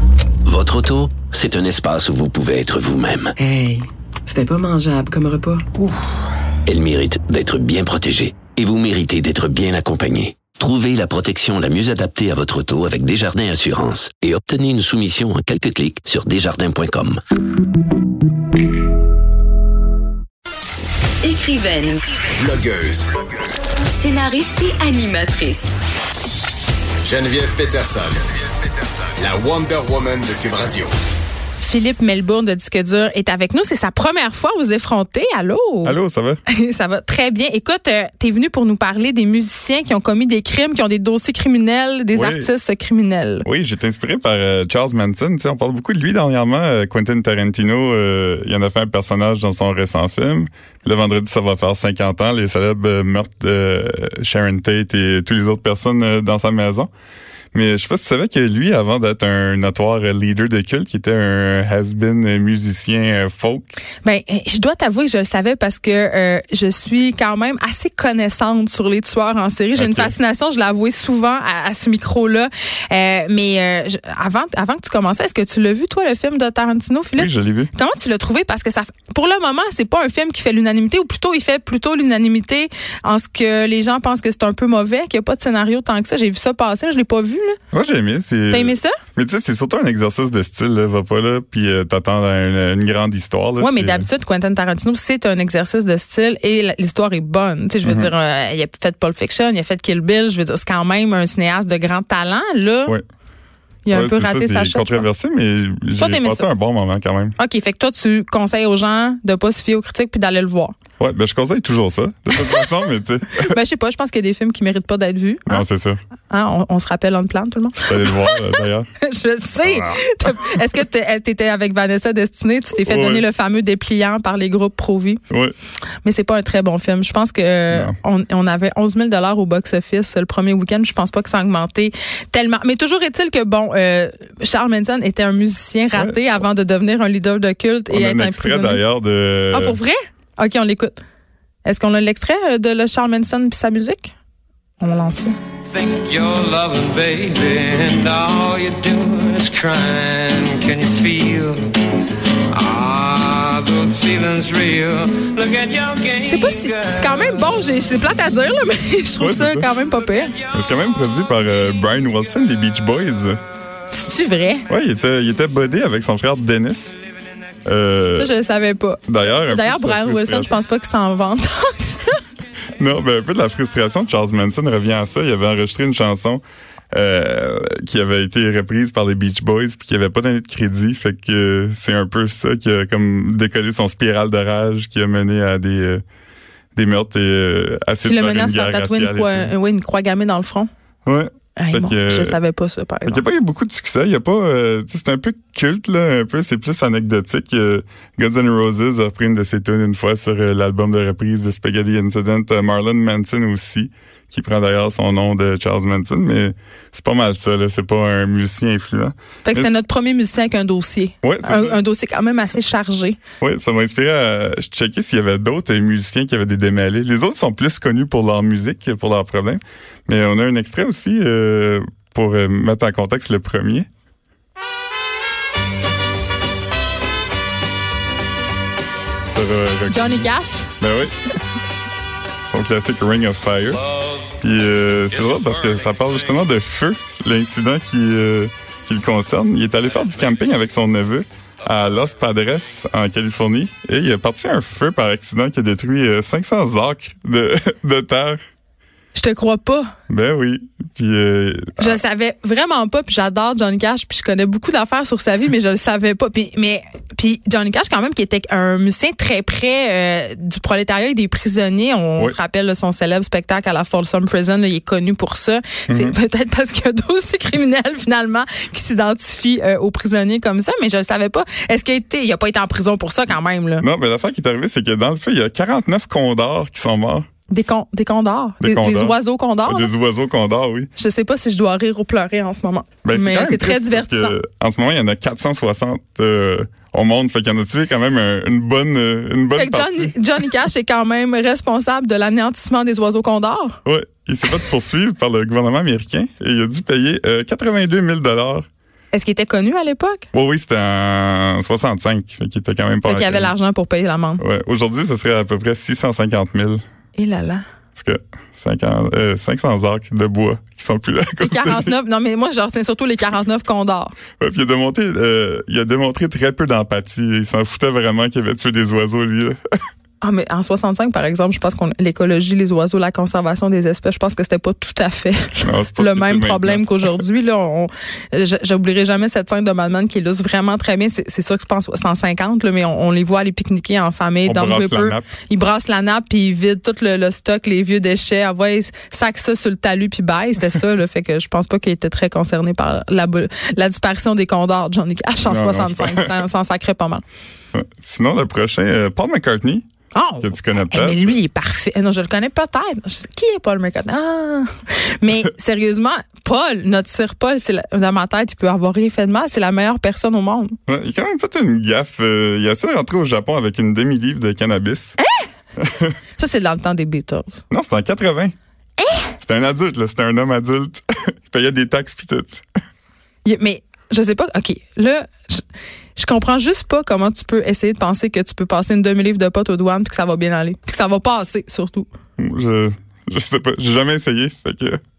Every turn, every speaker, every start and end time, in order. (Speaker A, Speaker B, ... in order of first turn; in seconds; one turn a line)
Speaker A: 0.4-3.3
Speaker B: 3.4-5.7
Speaker A: 6.7-17.2
Speaker C: 21.2-22.1
Speaker D: 22.3-23.1
Speaker C: 23.9-25.7
Speaker D: 27.0-28.2
Speaker D: 29.1-30.9
Speaker E: 31.6-36.0
Speaker F: 35.8-36.4
Speaker E: 36.5-43.5
Speaker F: 42.1-42.5
Speaker F: 43.4-56.9
Speaker F: 57.5-63.7
Speaker E: 64.0-87.6
Speaker F: 69.8-70.1
Speaker F: 77.2-77.7
Speaker F: 87.7-94.1
Speaker E: 88.5-88.9
Speaker E: 93.6-102.9
Speaker F: 97.8-98.1
Speaker E: 103.8-105.1
Speaker F: 103.9-107.3
Speaker E: 106.0-106.5
Speaker E: 107.4-110.7
Speaker F: 111.0-113.6
Speaker E: 112.4-112.6
Speaker E: 113.3-115.7
Speaker F: 115.5-116.0
Speaker E: 116.3-125.2
Speaker F: 117.8-118.9
Speaker F: 119.6-120.4
Speaker F: 122.8-123.2
Speaker F: 125.3-125.5
Speaker E: 126.0-138.8
Speaker F: 127.7-128.0
Speaker F: 135.9-136.3
Speaker F: 137.9-139.8
Speaker E: 139.5-141.0
Speaker E: 141.6-144.1
Speaker E: 144.8-145.3
Speaker G: 145.7-157.1
Speaker E: 156.2-160.3
Speaker F: 159.2-159.7
Speaker F: 160.5-163.4
Speaker E: 163.9-164.6
Speaker F: 164.7-167.0
Speaker F: 167.7-168.3
Speaker E: 168.1-172.2
Speaker F: 169.1-170.5
Speaker F: 172.8-186.0
Speaker F: 186.7-189.5
Speaker E: 188.0-190.7
Speaker F: 191.1-192.4
Speaker E: 191.6-193.2
Speaker F: 193.1-209.7
Speaker E: 209.4-213.2
Speaker F: 211.2-211.8
Speaker F: 213.4-223.9
Speaker F: 229.3-231.1
Speaker E: 229.9-230.7
Speaker F: 232.5-233.8
Speaker F: 234.4-248.4
Speaker E: 249.1-249.9
Speaker F: 250.1-252.0
Speaker E: 251.8-273.9
Speaker F: 265.9-266.1
Speaker F: 273.8-277.3
Speaker E: 277.5-279.9
Speaker F: 278.6-280.9
Speaker E: 281.0-284.3
Speaker F: 283.0-290.1
Speaker E: 289.5-293.8
Speaker F: 293.8-298.7
Speaker E: 299.1-300.2
Speaker F: 300.3-303.5
Speaker E: 303.1-304.4
Speaker F: 304.4-306.8
Speaker E: 307.1-307.6
Speaker F: 307.9-311.9
Speaker E: 311.4-314.1
Speaker F: 314.4-319.6
Speaker E: 320.2-347.2
Speaker F: 325.6-327.1
Speaker F: 334.4-335.3
Speaker F: 345.4-346.4
Speaker F: 347.7-349.8
Speaker E: 350.1-360.8
Speaker F: 350.4-351.4
Speaker F: 360.9-365.2
Speaker E: 365.2-365.5
Speaker F: 365.8-366.1
Speaker E: 366.4-367.6
Speaker F: 367.7-368.5
Speaker E: 369.0-369.3
Speaker F: 369.4-372.6
Speaker E: 373.4-375.6
Speaker E: 376.1-382.1
Speaker F: 382.4-385.0